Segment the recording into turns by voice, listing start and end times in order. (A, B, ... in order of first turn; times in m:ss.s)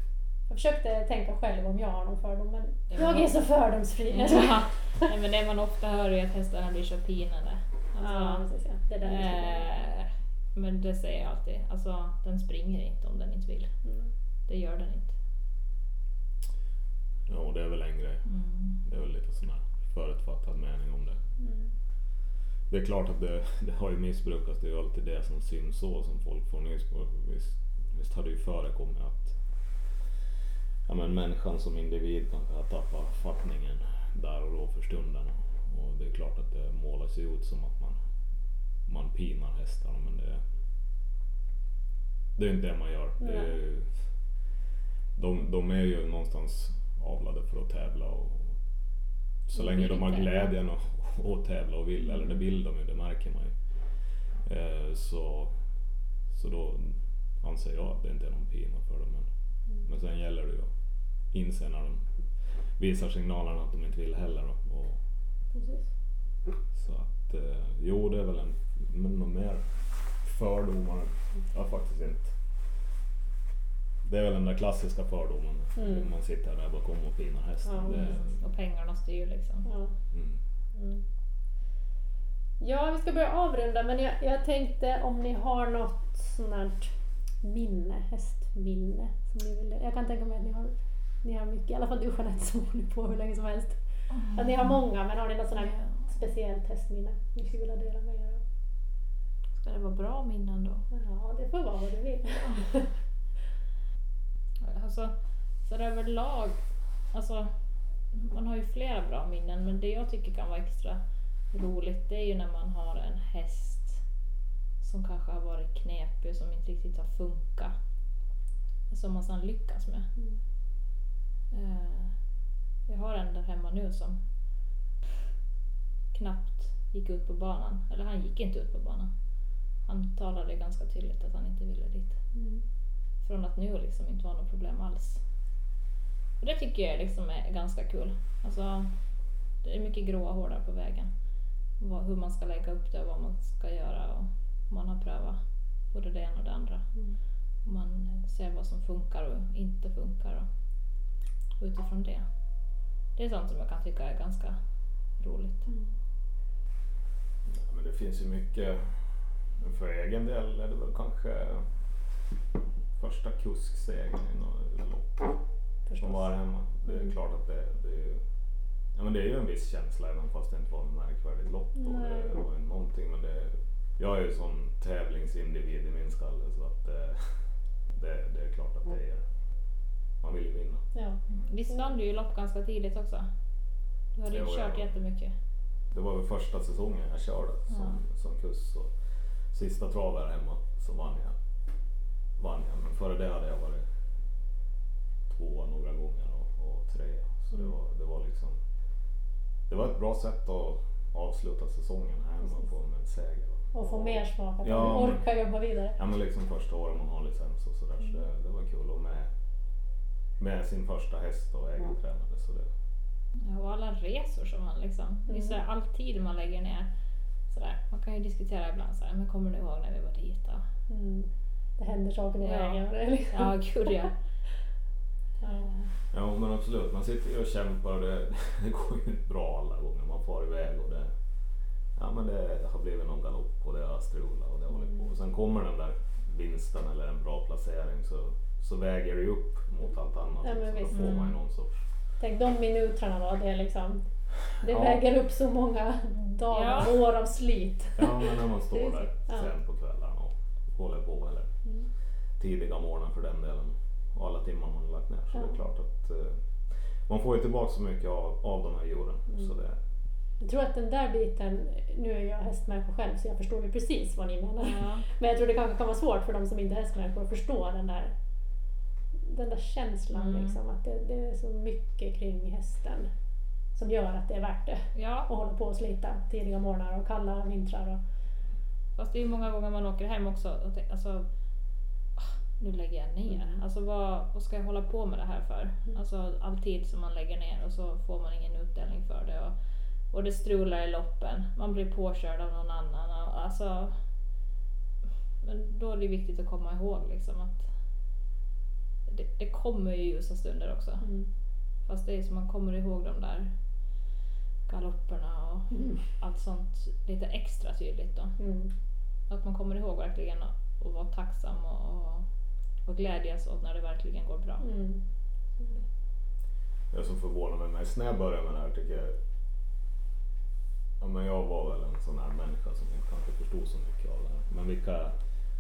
0:00.5-0:05.1 A
0:02.9-0:03.3 B
0:04.1-0:08.4 B
0:08.0-0:09.7 A
0:09.0-0:13.7 B
0:13.8-0:14.1 A
0:14.5-0:15.2 B
0:17.3-0:18.3 C
0:18.3-0:18.8 B
0:18.8-0:21.2 C
0:21.4-0:21.7 A
0:22.7-0:30.0 C
0:30.8-0:38.0 C
0:38.9-0:40.4 C
0:42.4-0:44.0 C
0:43.2-0:43.6 A
0:45.2-0:48.5 C
0:49.5-0:53.5 C
0:49.6-0:50.5 B
0:54.4-0:55.5 C
0:56.3-0:59.3 C
0:59.8-1:00.7 C
1:01.3-1:02.0 C
1:02.8-1:05.0 C
1:05.5-1:05.9 A
1:06.7-1:12.4 C
1:14.0-1:18.3 C
1:15.8-1:16.1 A
1:17.6-1:18.0 A
1:17.9-1:19.7 B
1:19.6-1:19.9 A
1:20.1-1:20.4 C
1:22.6-1:38.4 A
1:34.1-1:34.8 B
1:35.6-1:36.0 B
1:39.6-1:40.9 B
1:40.9-1:42.9 A
1:42.4-1:42.7 B
1:44.6-1:46.6 B
1:47.1-1:47.5 B
1:48.1-1:51.0 B
1:51.5-1:54.0 B
1:54.8-1:57.7 B
1:58.9-2:00.1 B
2:01.5-2:02.1 B
2:02.9-2:04.2 B
2:06.1-2:09.1 B
2:09.9-2:12.2 B
2:12.3-2:12.6 A
2:13.2-2:15.2 B
2:16.4-2:18.9 B
2:19.6-2:21.1 B
2:21.8-2:25.4 B
2:25.9-2:26.9 B
2:27.6-2:30.5 B
2:31.6-2:32.2 B
2:33.2-2:34.6 B
2:35.2-2:35.7 B
2:35.7-2:35.9 A
2:37.5-2:41.9 C
2:43.0-2:45.4 C
2:45.9-2:46.3 A
2:46.0-2:48.2 C
2:48.9-2:59.2 C
2:51.8-2:52.4 A
3:00.2-3:00.8 C
3:00.9-3:01.9 A
3:01.4-3:03.3 B
3:04.2-3:05.3 B
3:04.3-3:04.9 C
3:05.9-3:08.9 C
3:07.7-3:08.0 B
3:09.5-3:11.4 C
3:12.4-3:13.8 C
3:15.3-3:18.6 C
3:19.7-3:25.3 C
3:23.7-3:26.0 A
3:26.0-3:29.3 C
3:30.4-3:32.7 C
3:33.4-3:36.9 B
3:35.3-3:35.6 A
3:37.5-3:40.6 B
3:40.9-3:44.1 A
3:42.4-3:44.2 B
3:45.4-3:45.7 A
3:45.4-3:45.9 B
3:46.1-3:51.1 C
3:52.0-4:01.8 C
4:00.4-4:01.3 A
4:00.9-4:01.3 B
4:02.2-4:04.0 A
4:04.6-4:05.0 C
4:04.6-4:08.2 A
4:06.5-4:07.1 B
4:08.0-4:11.6 C
4:08.8-4:09.0 B
4:12.4-4:19.8 C
4:20.4-4:28.1 A
4:24.6-4:25.1 B
4:29.2-4:33.1 A
4:30.1-4:30.6 B
4:33.8-4:38.0 A
4:35.0-4:35.3 B
4:39.0-4:41.3 B
4:42.2-4:49.6 B
4:43.3-4:43.6 A
4:50.1-4:54.0 B
4:55.4-4:57.7 B
4:59.1-5:01.1 B
5:01.0-5:01.3 A
5:01.9-5:03.5 B
5:04.7-5:08.4 B
5:08.4-5:08.7 A
5:09.3-5:12.3 B
5:12.9-5:14.7 B
5:14.6-5:15.0 A
5:16.9-5:19.2 C
5:21.0-5:25.2 C